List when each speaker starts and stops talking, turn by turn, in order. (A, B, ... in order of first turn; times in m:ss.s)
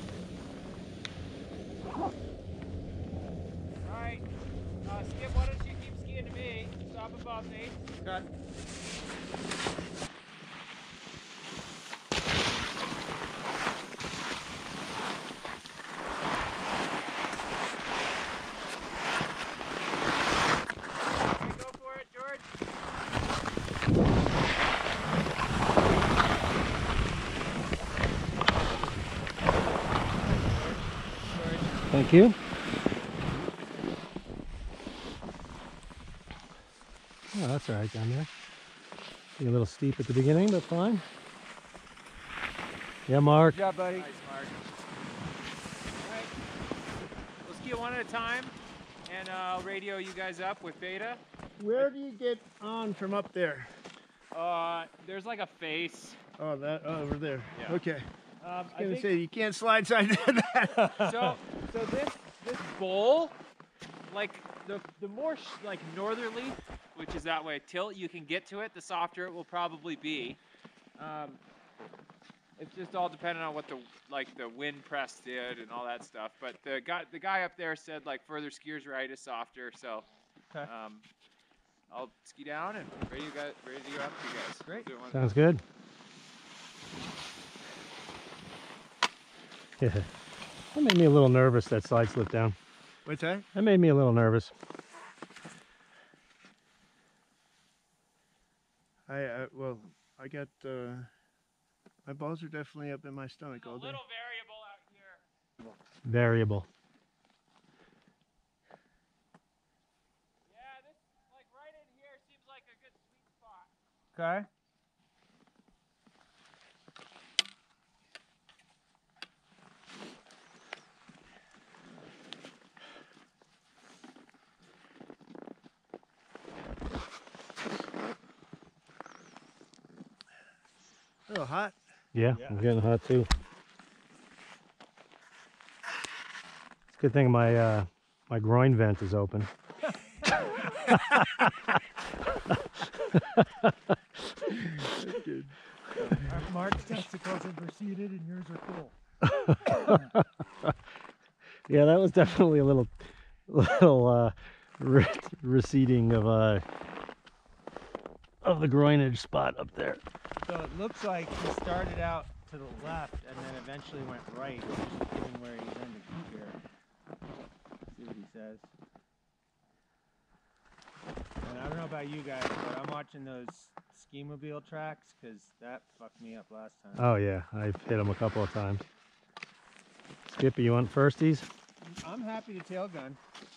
0:03.8-0:04.2 A
0:04.8-0:08.0 A
0:21.3-0:22.5 A
0:30.4-0:31.7 A
0:31.9-0:32.4 B
0:37.3-0:38.3 B
0:39.4-0:41.0 B
0:43.1-0:43.6 B
0:43.5-0:44.1 C
0:43.7-0:44.6 A
0:46.0-0:46.3 A
0:47.4-0:48.6 A
0:49.0-0:51.2 A
0:51.6-0:53.7 D
0:54.3-0:56.2 A
0:56.4-0:58.1 D
0:57.5-0:57.8 A
0:58.4-0:59.1 A
0:58.7-1:00.9 D
1:00.8-1:01.3 C
1:01.0-1:03.4 A
1:04.0-1:10.4 A
1:11.0-1:11.4 A
1:12.6-1:20.1 A
1:20.6-1:21.0 A
1:21.9-1:25.4 A
1:25.1-1:25.6 B
1:29.8-1:30.1 B
1:30.7-1:32.6 B
1:33.0-1:33.5 D
1:33.5-1:34.5 B
1:39.1-1:41.1 D
1:42.0-1:44.0 D
1:43.5-1:45.2 A
1:46.0-1:46.7 B
1:50.4-1:53.7 A
1:54.1-1:54.5 C
2:11.3-2:11.8 D
2:12.1-2:13.3 B
2:12.3-2:12.7 C
2:16.9-2:19.5 B
2:20.9-2:21.5 B
2:23.1-2:23.7 B
2:24.8-2:26.4 D
2:26.3-2:28.9 C
2:29.2-2:30.7 B
2:31.7-2:36.6 B
2:38.4-2:40.0 B
2:40.4-2:46.6 C
2:47.9-2:48.7 C
2:51.4-2:57.1 C
2:57.0-2:58.8 B
3:00.2-3:01.5 B
3:01.8-3:03.2 C